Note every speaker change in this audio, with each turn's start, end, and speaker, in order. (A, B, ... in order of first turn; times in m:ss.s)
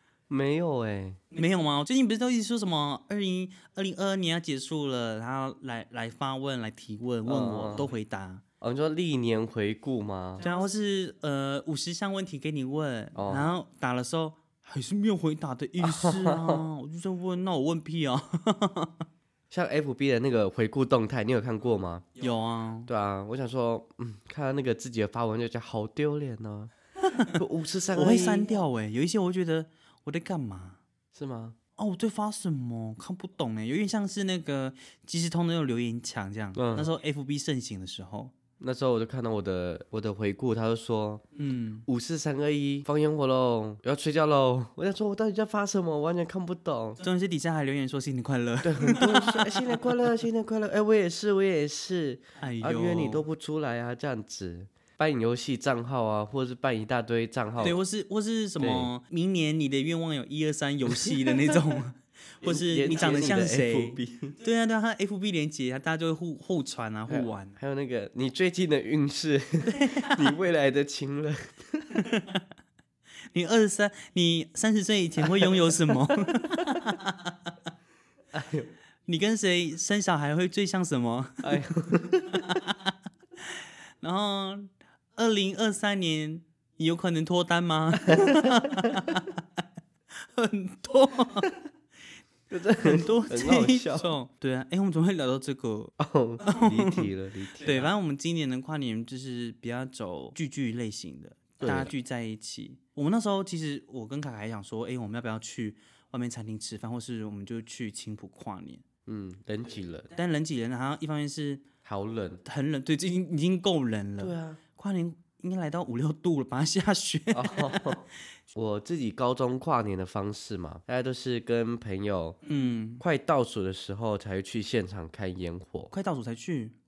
0:00.3-0:01.2 A
0:01.3-0:08.4 B
0:07.2-0:07.9 A
0:08.6-0:10.4 A
0:10.4-0:19.0 B
0:13.1-0:13.5 A
0:15.8-0:16.6 A
0:19.5-0:22.1 A
0:22.2-0:22.9 B
0:22.8-0:28.4 A
0:27.1-0:27.4 B
0:27.9-0:30.8 B
0:31.1-0:31.6 A
0:31.8-0:38.3 B
0:36.5-0:36.9 A
0:38.6-0:41.2 A
0:41.3-0:41.8 B
0:41.9-0:47.0 A
0:47.0-0:50.0 B
0:48.6-0:57.8 A
0:52.4-0:53.2 B
0:57.6-1:07.6 B
0:58.6-0:58.9 A
1:00.9-1:01.6 A
1:02.4-1:04.4 A
1:07.1-1:12.0 A
1:09.7-1:10.4 B
1:11.9-1:12.4 B
1:13.3-1:17.5 B
1:15.4-1:15.7 A
1:18.3-1:18.7 A
1:19.0-1:21.6 B
1:21.4-1:22.6 A
1:22.3-1:29.4 B
1:28.0-1:28.9 A
1:30.1-1:31.6 B
1:32.5-1:34.1 A
1:32.8-1:37.1 B
1:36.0-1:37.9 A
1:37.6-1:48.8 B
1:41.6-1:41.9 A
1:49.0-1:50.1 A
1:50.1-1:51.6 B
1:51.8-1:52.4 A
1:52.4-1:58.0 B
1:54.2-1:54.6 A
1:57.3-2:02.4 A
2:02.4-2:03.0 B
2:03.0-2:05.9 A
2:05.9-2:06.7 B